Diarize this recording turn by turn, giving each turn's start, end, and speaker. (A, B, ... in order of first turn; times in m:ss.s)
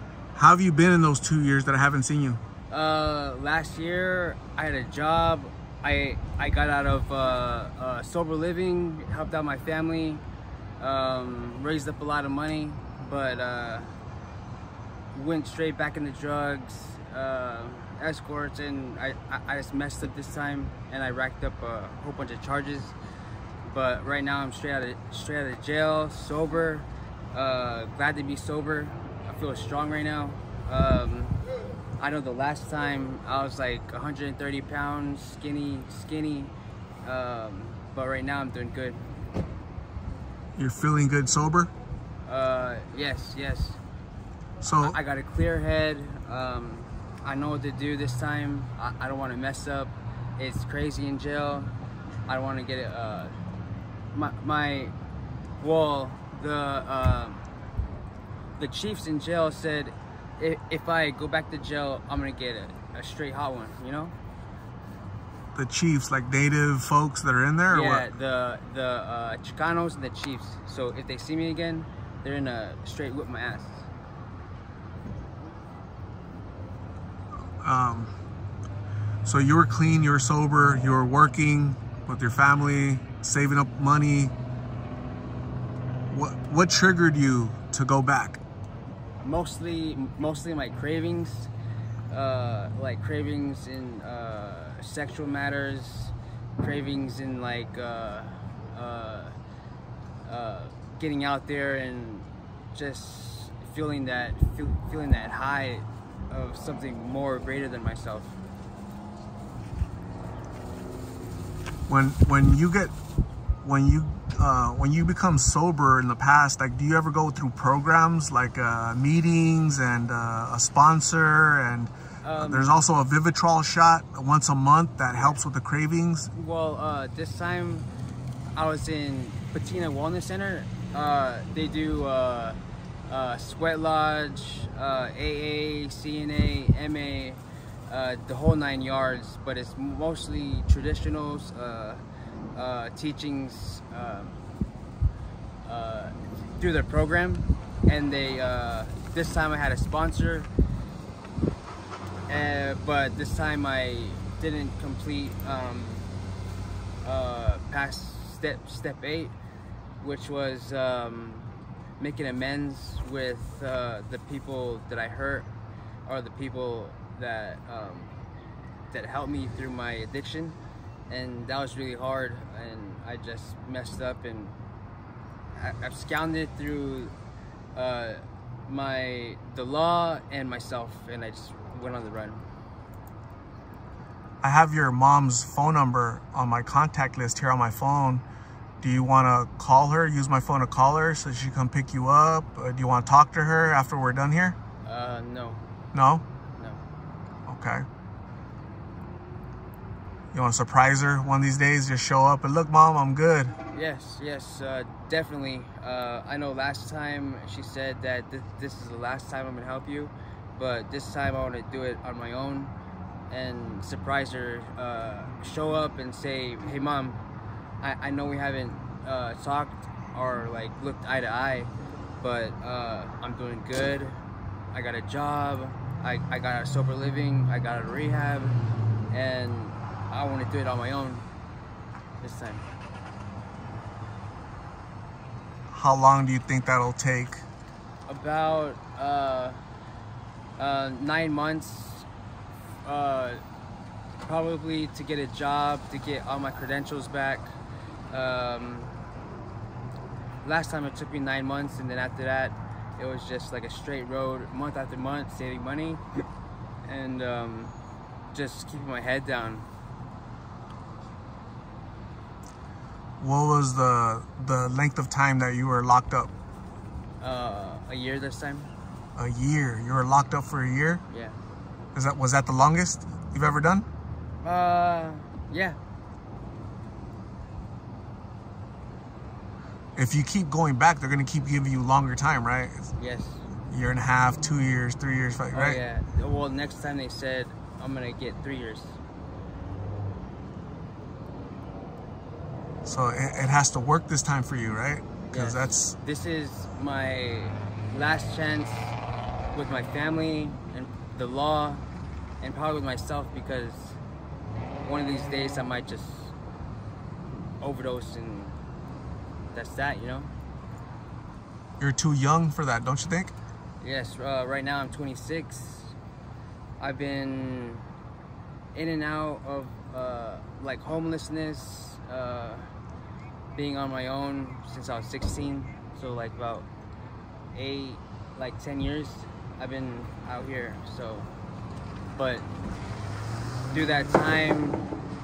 0:00.3-0:02.4 A
0:02.7-0:10.2 B
0:10.8-0:13.9 B
0:15.1-0:23.0 B
0:23.6-0:31.4 B
0:32.0-0:36.5 B
0:37.0-0:39.1 B
0:40.6-0:41.7 A
0:42.2-0:43.8 B
0:44.6-0:45.0 A
0:44.8-0:51.7 B
0:52.3-0:53.3 B
0:54.1-0:54.9 B
0:55.6-0:57.4 B
0:58.6-1:04.1 B
1:05.5-1:08.1 A
1:07.7-1:13.9 B
1:17.6-1:18.1 A
1:19.2-1:24.3 A
1:26.1-1:28.4 A
1:29.2-1:31.5 B
1:32.1-1:39.3 B
1:40.2-1:48.3 B
1:51.9-1:52.9 A
1:53.6-2:06.3 A
2:02.2-2:02.8 B
2:05.1-2:05.4 B
2:06.3-2:07.9 B
2:08.5-2:22.0 B
2:22.5-2:24.4 B
2:25.6-2:30.5 B
2:32.3-2:36.1 B
2:37.0-2:39.3 B
2:40.0-2:45.5 B
2:46.0-2:48.1 B
2:48.9-2:50.6 B
2:51.1-2:54.5 B
2:55.6-2:57.1 B
2:57.7-3:02.4 B
3:04.4-3:08.2 A
3:08.8-3:14.6 A
3:14.8-3:15.6 B
3:15.9-3:16.2 A
3:16.6-3:16.8 B
3:17.5-3:17.8 A
3:20.3-3:23.5 A
3:23.7-3:32.7 B
3:33.3-3:37.2 B
3:37.8-3:44.2 B
3:44.7-3:48.6 B
3:49.1-3:51.2 B
3:52.2-3:52.6 B
3:55.7-3:57.4 A
3:58.1-3:59.6 B
4:00.6-4:02.1 B
4:02.8-4:03.4 B
4:04.2-4:07.5 B
4:08.1-4:08.9 B
4:10.4-4:16.0 B
4:16.8-4:17.7 B
4:18.3-4:19.7 B
4:23.2-4:26.3 A
4:27.2-4:28.7 B
4:29.2-4:31.0 A
4:31.1-4:31.4 B
4:31.9-4:33.9 A
4:34.4-4:35.8 B
4:39.9-4:42.9 A
4:43.0-4:43.4 B
4:43.7-4:45.8 A
4:45.5-4:49.0 B
4:52.8-4:56.0 A
4:55.3-4:59.0 B
4:59.5-5:01.8 B
5:02.4-5:04.0 B
5:04.8-5:06.3 B
5:07.6-5:08.6 B
5:09.5-5:10.3 B
5:11.8-5:13.3 A
5:13.8-5:15.9 B
5:16.8-5:17.8 B
5:18.7-5:22.7 B
5:23.5-5:26.7 B
5:27.5-5:31.3 B
5:32.2-5:32.4 B
5:33.7-5:34.8 B